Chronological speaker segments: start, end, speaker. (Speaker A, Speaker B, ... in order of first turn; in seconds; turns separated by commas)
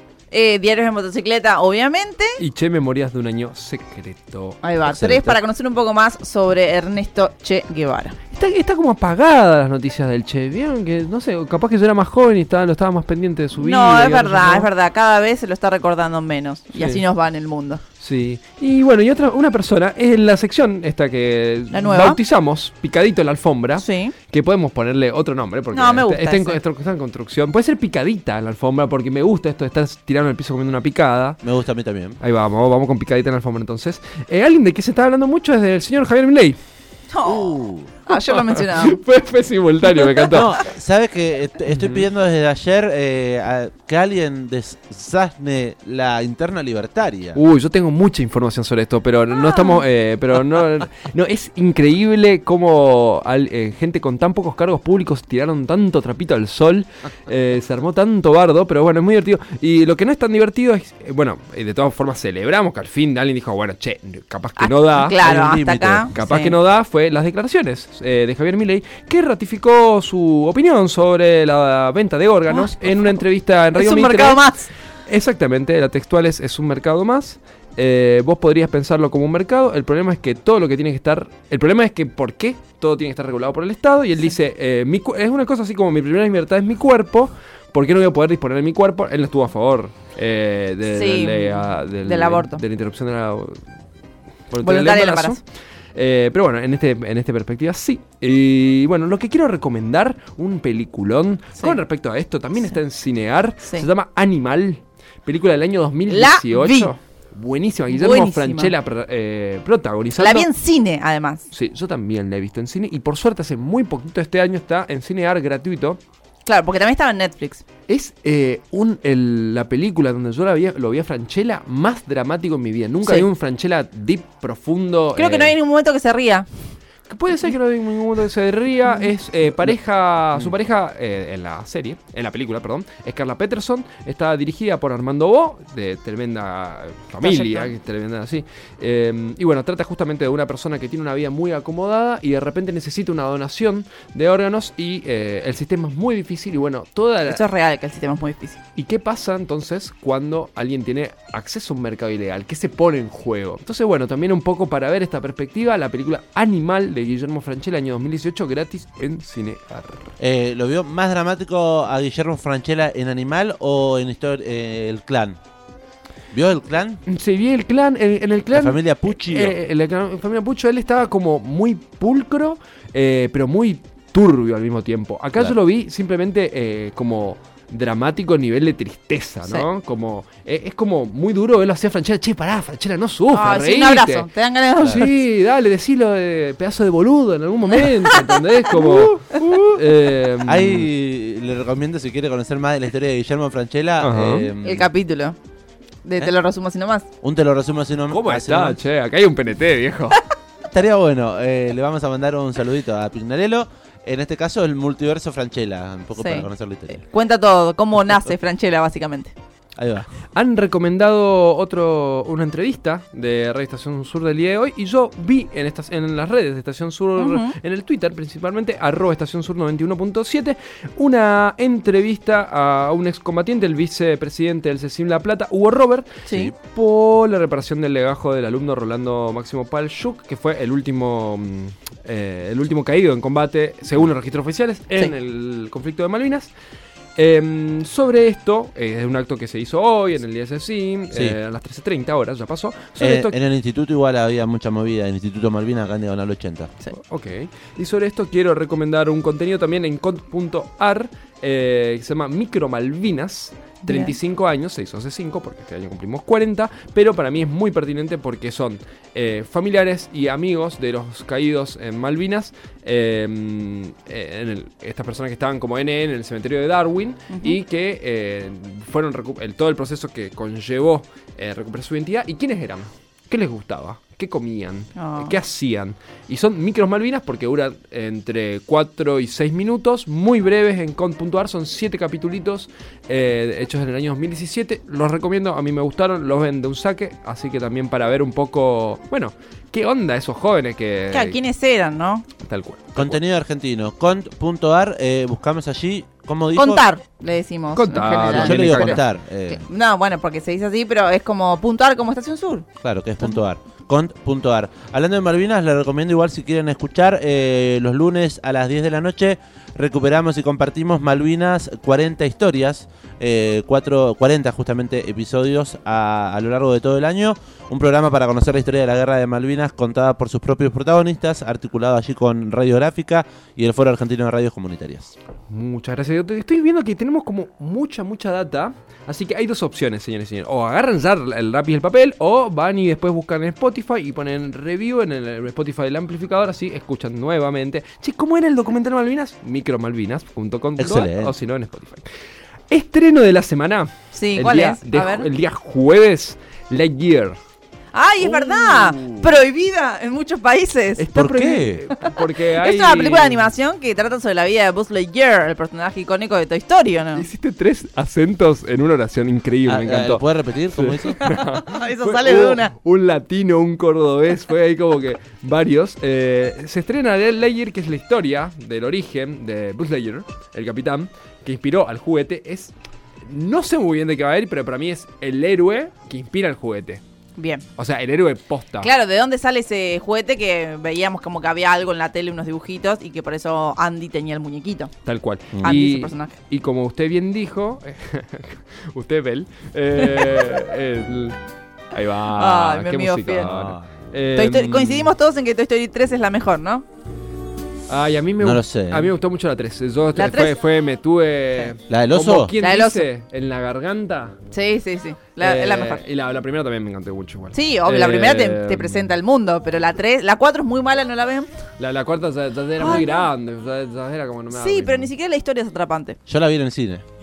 Speaker A: 0.3-2.4, Speaker B: 2.4-4.6, Speaker A: 4.6-8.2, Speaker C: 4.9-5.4, Speaker B: 8.3-14.7, Speaker A: 13.6-17.8, Speaker B: 16.8-17.0, Speaker B: 18.0-31.4, Speaker A: 21.7-22.2, Speaker A: 23.8-24.1, Speaker A: 25.7-26.6, Speaker C: 31.4-32.2, Speaker B: 32.2-36.6, Speaker A: 37.1-39.0, Speaker C: 37.2-37.9, Speaker B: 38.2-40.6, Speaker C: 40.3-47.4, Speaker B: 41.7-42.1, Speaker B: 47.4-65.3, Speaker A: 49.4-49.8, Speaker A: 64.6-66.5, Speaker C: 65.2-66.1, Speaker B: 66.2-74.5, Speaker A: 72.5-73.1, Speaker A: 73.8-74.7, Speaker B: 75.1-93.6, Speaker A: 90.9-92.6, Speaker B: 94.5-95.4, Speaker A: 94.6-95.4, Speaker B: 96.0-110.5, Speaker A: 106.1-106.9, Speaker A: 107.9-108.7, Speaker A: 110.2-111.5, Speaker B: 111.5-116.0, Speaker A: 116.5-117.6, Speaker B: 117.9-125.5, Speaker A: 125.2-126.5, Speaker B: 127.1-147.4, Speaker A: 137.2-137.7, Speaker A: 147.3-148.6, Speaker B: 148.8-160.2, Speaker C: 160.2-165.4, Speaker C: 166.3-167.0, Speaker B: 167.1-184.3, Speaker C: 168.5-169.6, Speaker A: 183.3-185.2, Speaker B: 184.8-190.9, Speaker C: 188.8-189.8, Speaker C: 190.5-194.9, Speaker B: 194.0-194.5, Speaker A: 194.6-195.4, Speaker A: 196.0-197.1, Speaker C: 197.2-198.8, Speaker B: 198.1-200.2, Speaker C: 200.7-207.0, Speaker A: 206.2-209.3, Speaker C: 209.8-210.1, Speaker B: 210.3-236.5, Speaker A: 217.2-217.6, Speaker A: 226.3-226.5, Speaker B: 237.2-243.4, Speaker C: 243.0-246.7, Speaker B: 246.9-291.4, Speaker A: 253.9-254.2, Speaker A: 267.3-267.6, Speaker A: 275.0-275.4, Speaker A: 291.1-292.3, Speaker B: 292.4-293.2, Speaker C: 293.0-296.8, Speaker A: 296.6-302.7, Speaker B: 297.8-299.0, Speaker C: 298.2-299.6, Speaker C: 302.8-325.1, Speaker B: 325.5-342.1, Speaker C: 340.8-341.3, Speaker B: 342.7-347.4, Speaker A: 344.1-345.3, Speaker A: 347.9-351.1, Speaker C: 348.2-349.3, Speaker B: 351.0-353.5, Speaker C: 351.1-351.8, Speaker A: 352.0-357.3, Speaker B: 357.1-372.7, Speaker C: 359.7-361.4, Speaker A: 361.2-362.7, Speaker B: 373.2-377.0, Speaker A: 377.4-377.6, Speaker B: 377.8-378.9, Speaker A: 378.8-384.9, Speaker B: 385.1-391.4, Speaker A: 385.6-386.4, Speaker A: 390.1-390.5, Speaker B: 391.9-395.1, Speaker A: 392.4-393.5, Speaker C: 393.4-393.9, Speaker A: 394.4-396.9, Speaker B: 397.9-404.4, Speaker C: 398.4-399.1, Speaker A: 400.2-400.6, Speaker C: 401.9-402.5, Speaker A: 402.6-403.1, Speaker A: 404.5-406.0, Speaker B: 405.4-409.1, Speaker A: 407.5-411.6, Speaker B: 411.8-415.1, Speaker A: 412.8-413.3, Speaker A: 414.5-416.2, Speaker C: 416.3-417.0